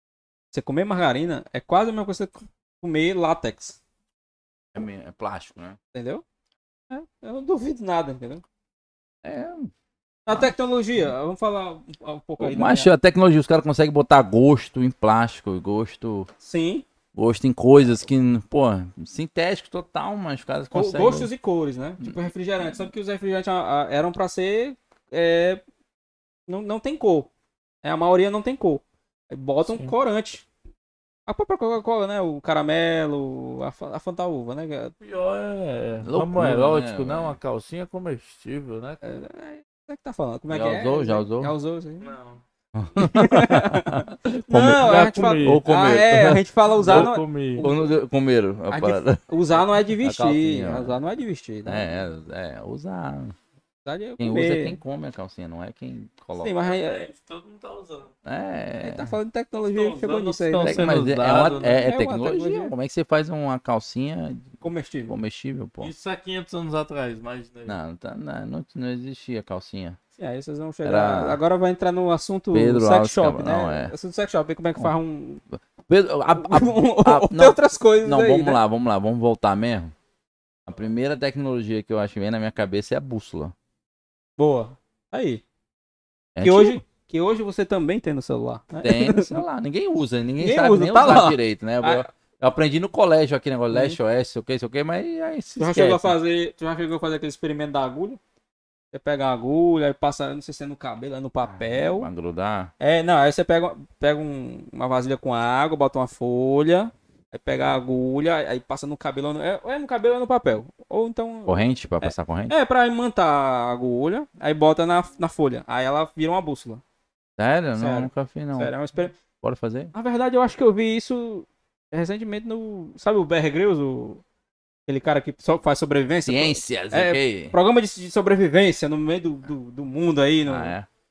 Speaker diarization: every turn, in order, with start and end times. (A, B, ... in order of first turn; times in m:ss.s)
0:00.5-0:03.8 A
0:04.7-0:05.8 B
0:05.9-0:06.2 A
0:06.9-0:08.4 A
0:09.2-0:09.7 B
0:10.2-0:12.9 A
0:10.3-0:11.1 B
0:12.4-0:16.3 B
0:16.4-0:16.8 A
0:17.1-0:21.3 B
0:20.7-0:25.6 A
0:26.5-0:27.3 A
0:27.8-0:30.4 A
0:29.7-0:29.9 C
0:31.3-0:34.9 A
0:35.0-0:39.0 C
0:36.0-0:37.4 B
0:39.0-0:42.1 A
0:40.5-0:41.5 B
0:42.0-0:42.4 C
0:42.7-0:51.0 B
0:43.0-0:47.9 A
0:44.8-0:45.6 C
0:46.8-0:47.7 C
0:48.7-0:52.0 A
0:51.6-0:53.3 B
0:53.8-0:54.8 A
0:54.2-0:56.6 B
0:56.4-0:57.1 A
0:56.6-0:58.1 C
0:58.2-0:59.1 B
0:58.8-1:00.9 A
0:59.5-1:01.9 C
1:00.6-1:05.9 B
1:01.8-1:02.7 A
1:04.6-1:05.1 A
1:05.8-1:07.8 C
1:07.7-1:10.0 B
1:10.2-1:15.4 A
1:10.8-1:11.4 B
1:12.5-1:13.9 B
1:15.5-1:19.9 B
1:16.3-1:18.6 A
1:20.7-1:23.5 B
1:24.4-1:25.4 A
1:26.4-1:26.8 B
1:26.4-1:29.4 A
1:28.8-1:36.1 B
1:30.4-1:32.1 A
1:33.7-1:34.0 A
1:35.6-1:38.2 A
1:38.9-1:42.1 A
1:41.5-1:42.7 B
1:42.8-1:56.8 A
1:51.5-1:52.5 B
1:57.4-1:58.7 B
1:57.8-1:59.1 A
1:59.4-1:59.9 B
1:59.9-2:04.2 A
2:04.9-2:10.7 A
2:06.2-2:07.6 B
2:10.4-2:10.9 B